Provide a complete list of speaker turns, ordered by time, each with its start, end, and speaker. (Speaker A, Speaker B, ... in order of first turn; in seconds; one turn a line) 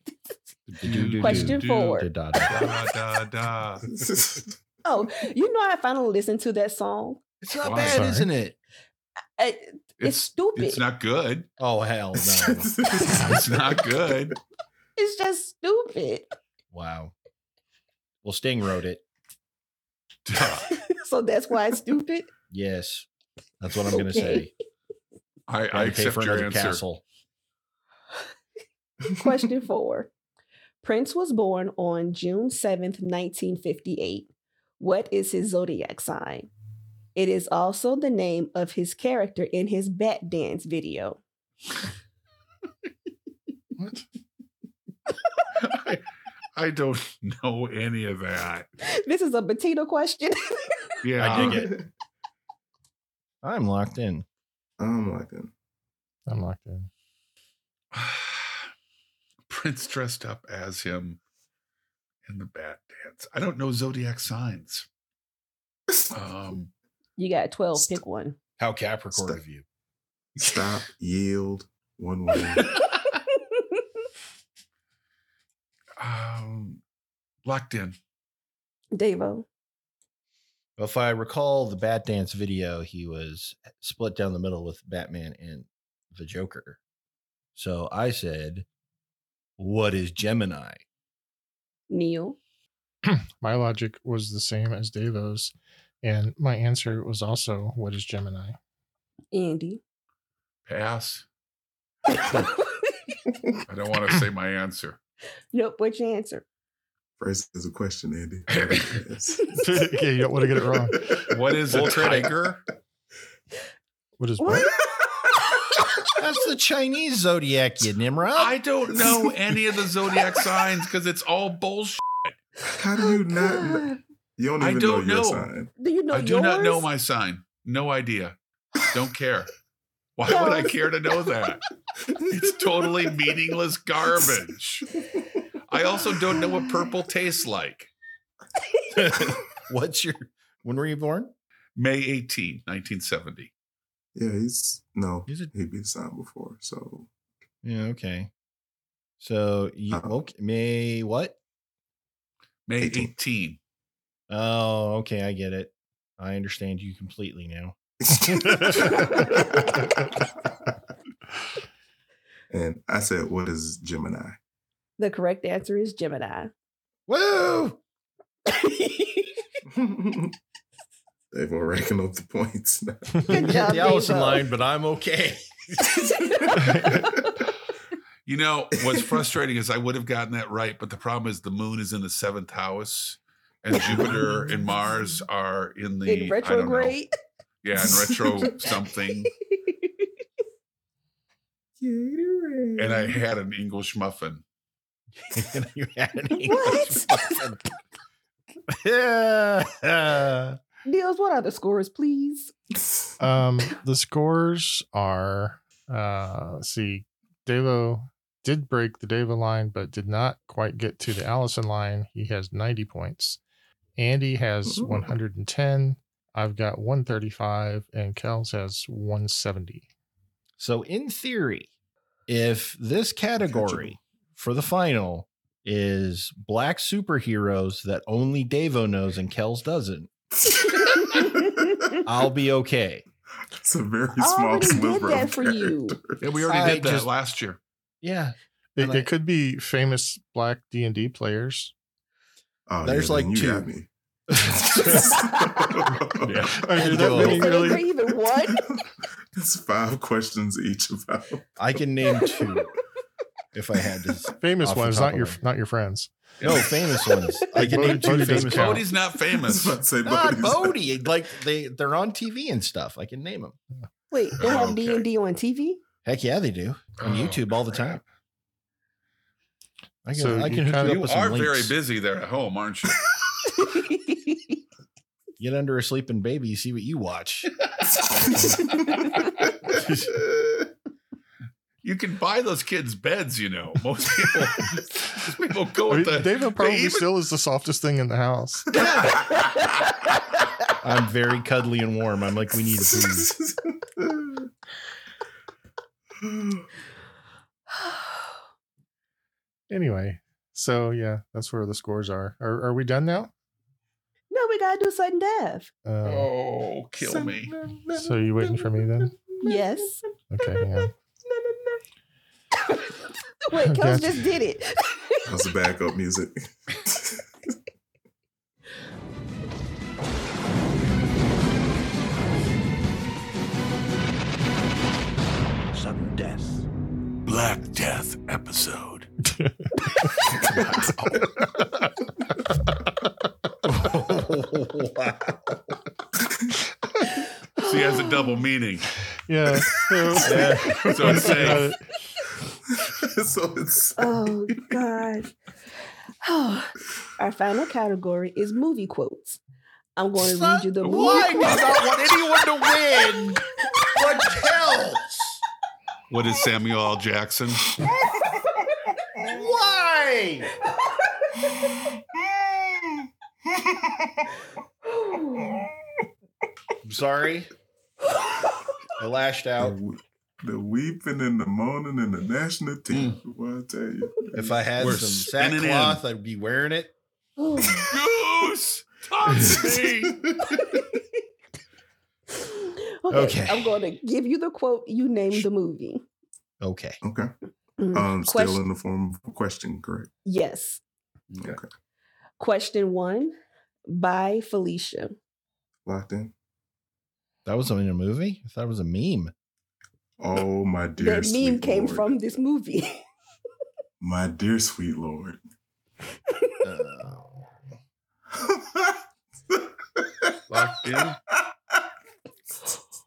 Speaker A: 0.7-2.6
Speaker B: 0.8-1.9
Speaker C: 1.2-2.1
Speaker B: 2.4-3.8
Speaker D: 3.8-4.5
Speaker C: 4.8-8.0
Speaker A: 7.5-8.6
Speaker B: 7.6-8.0
Speaker E: 7.9-8.3
Speaker C: 9.4-10.8
Speaker B: 10.0-11.5
Speaker A: 11.6-12.7
Speaker D: 12.3-13.8
Speaker B: 13.0-14.3
Speaker C: 15.0-16.3
Speaker A: 16.7-17.1
Speaker A: 18.2-19.0
Speaker B: 20.2-20.7
Speaker C: 20.7-22.3
Speaker A: 22.5-23.1
Speaker A: 23.6-24.5
Speaker C: 23.9-24.5
Speaker B: 25.5-26.8
Speaker A: 25.7-27.0
Speaker C: 29.1-30.1
Speaker C: 30.8-36.5
Speaker C: 37.1-41.2
Speaker B: 45.6-46.0
Speaker B: 46.5-48.7
Speaker C: 48.8-50.7
Speaker B: 51.0-51.7
Speaker A: 51.2-51.8
Speaker D: 51.2-51.8
Speaker A: 53.4-54.2
Speaker D: 54.8-55.5
Speaker E: 56.3-56.9
Speaker B: 57.9-58.7
Speaker B: 59.5-61.2
Speaker B: 62.2-64.9
Speaker B: 66.1-66.7
Speaker C: 67.2-68.3
Speaker A: 68.6-69.6
Speaker D: 69.1-69.4
Speaker D: 70.4-72.8
Speaker B: 76.0-76.8
Speaker B: 77.5-78.0
Speaker C: 78.9-79.5
Speaker A: 80.8-86.8
Speaker A: 87.5-88.7
Speaker A: 89.6-90.8
Speaker C: 91.9-92.4
Speaker E: 93.1-98.6
Speaker C: 99.3-99.8
Speaker B: 100.7-101.2
Speaker B: 103.7-105.0
Speaker C: 105.5-106.4
Speaker D: 107.2-109.7
Speaker B: 108.5-109.0
Speaker E: 109.6-111.2
Speaker B: 111.3-112.6
Speaker A: 111.7-112.6
Speaker E: 114.2-114.7
Speaker C: 114.4-114.7
Speaker A: 116.2-118.5
Speaker B: 118.3-122.3
Speaker D: 118.9-119.3
Speaker D: 122.7-123.8
Speaker C: 123.3-124.0
Speaker D: 124.4-125.7
Speaker B: 124.6-125.5
Speaker C: 125.8-126.9
Speaker B: 126.1-128.3
Speaker B: 128.9-129.5
Speaker B: 130.2-131.6
Speaker C: 130.2-130.7
Speaker B: 132.2-134.9
Speaker B: 135.7-137.9
Speaker A: 138.9-141.3
Speaker B: 141.8-143.5
Speaker D: 144.1-147.1
Speaker A: 147.6-148.3
Speaker A: 149.2-151.4
Speaker B: 152.7-153.6
Speaker D: 152.8-153.1
Speaker A: 154.3-157.8
Speaker D: 158.0-160.1
Speaker D: 162.5-164.4
Speaker C: 165.0-166.5
Speaker A: 167.1-167.8
Speaker C: 168.5-169.3
Speaker D: 169.7-170.3
Speaker D: 171.3-173.3
Speaker A: 173.3-175.8
Speaker C: 173.3-174.4
Speaker D: 176.0-177.1
Speaker E: 176.6-177.0
Speaker B: 178.2-186.9
Speaker D: 183.8-184.5
Speaker C: 186.1-187.1
Speaker B: 187.6-189.3
Speaker C: 189.5-190.1
Speaker D: 191.8-193.2
Speaker B: 192.8-194.4
Speaker A: 195.3-197.6
Speaker C: 196.4-197.3
Speaker A: 198.7-200.6
Speaker C: 200.8-202.5
Speaker E: 203.2-213.4
Speaker E: 214.0-219.9
Speaker D: 214.7-215.2
Speaker A: 220.6-221.7
Speaker A: 222.3-230.1
Speaker D: 223.5-223.9
Speaker D: 230.5-231.4
Speaker A: 232.0-233.0
Speaker D: 233.5-236.2
Speaker C: 234.2-236.0
Speaker B: 236.2-237.6
Speaker A: 236.5-237.1
Speaker A: 238.0-239.1
Speaker E: 238.8-241.7
Speaker D: 242.7-243.9
Speaker A: 242.8-243.7
Speaker A: 244.3-245.2
Speaker D: 244.6-246.6
Speaker A: 246.3-247.6
Speaker E: 246.5-247.8
Speaker C: 247.0-248.6
Speaker D: 249.3-251.5
Speaker A: 251.6-252.7
Speaker A: 253.5-255.4
Speaker E: 254.4-256.1
Speaker B: 256.4-256.7
Speaker A: 256.4-258.8
Speaker E: 257.5-258.9
Speaker B: 258.3-259.8
Speaker D: 259.4-260.8
Speaker A: 260.0-263.6
Speaker C: 264.1-265.8
Speaker B: 264.4-265.0
Speaker A: 266.0-268.0
Speaker B: 267.0-268.0
Speaker A: 270.1-271.7
Speaker E: 270.1-271.0
Speaker B: 270.8-273.0
Speaker C: 273.5-274.6
Speaker A: 275.4-277.5
Speaker D: 277.9-279.0
Speaker B: 281.8-287.1
Speaker E: 285.9-288.9
Speaker A: 288.7-289.3
Speaker D: 288.8-289.5
Speaker A: 290.8-293.3
Speaker D: 292.9-294.5
Speaker D: 296.2-296.6
Speaker E: 299.7-303.3
Speaker C: 304.3-305.7
Speaker E: 305.9-306.3
Speaker B: 306.0-307.5
Speaker D: 307.0-309.6
Speaker E: 307.9-309.1
Speaker C: 309.4-310.0
Speaker E: 310.3-310.9
Speaker D: 311.3-311.8
Speaker C: 313.5-315.2
Speaker E: 313.6-314.2
Speaker D: 315.2-317.2
Speaker A: 325.8-326.6
Speaker B: 327.3-328.6
Speaker E: 329.3-330.2
Speaker E: 330.9-331.7
Speaker A: 333.6-335.8
Speaker C: 337.6-338.3
Speaker B: 337.6-338.9
Speaker E: 339.3-341.8
Speaker D: 339.6-341.6
Speaker A: 340.2-340.9
Speaker B: 340.9-341.7
Speaker D: 342.7-344.8
Speaker C: 344.0-345.3
Speaker C: 346.2-349.4
Speaker C: 349.9-351.6
Speaker A: 350.1-355.4
Speaker B: 350.8-352.8
Speaker B: 356.1-357.7
Speaker A: 359.1-360.5
Speaker D: 362.0-364.2
Speaker C: 364.9-365.6
Speaker A: 366.8-367.5
Speaker A: 369.0-369.8
Speaker D: 369.6-374.9
Speaker B: 372.9-373.2
Speaker A: 374.3-376.9
Speaker B: 374.8-376.0
Speaker C: 377.4-377.9
Speaker B: 377.8-380.2
Speaker D: 380.2-380.6
Speaker C: 382.4-386.0
Speaker A: 383.1-383.7
Speaker A: 386.6-387.0
Speaker D: 387.0-387.3
Speaker C: 387.8-388.6
Speaker D: 387.9-390.1
Speaker C: 390.2-390.8
Speaker B: 391.3-391.6
Speaker D: 391.4-391.7
Speaker C: 392.4-393.3
Speaker C: 393.9-395.2
Speaker D: 395.9-396.3
Speaker A: 397.4-399.3
Speaker D: 400.2-402.1
Speaker C: 401.0-403.0
Speaker D: 404.0-405.4
Speaker A: 406.6-407.4
Speaker D: 408.3-410.4
Speaker B: 410.5-411.2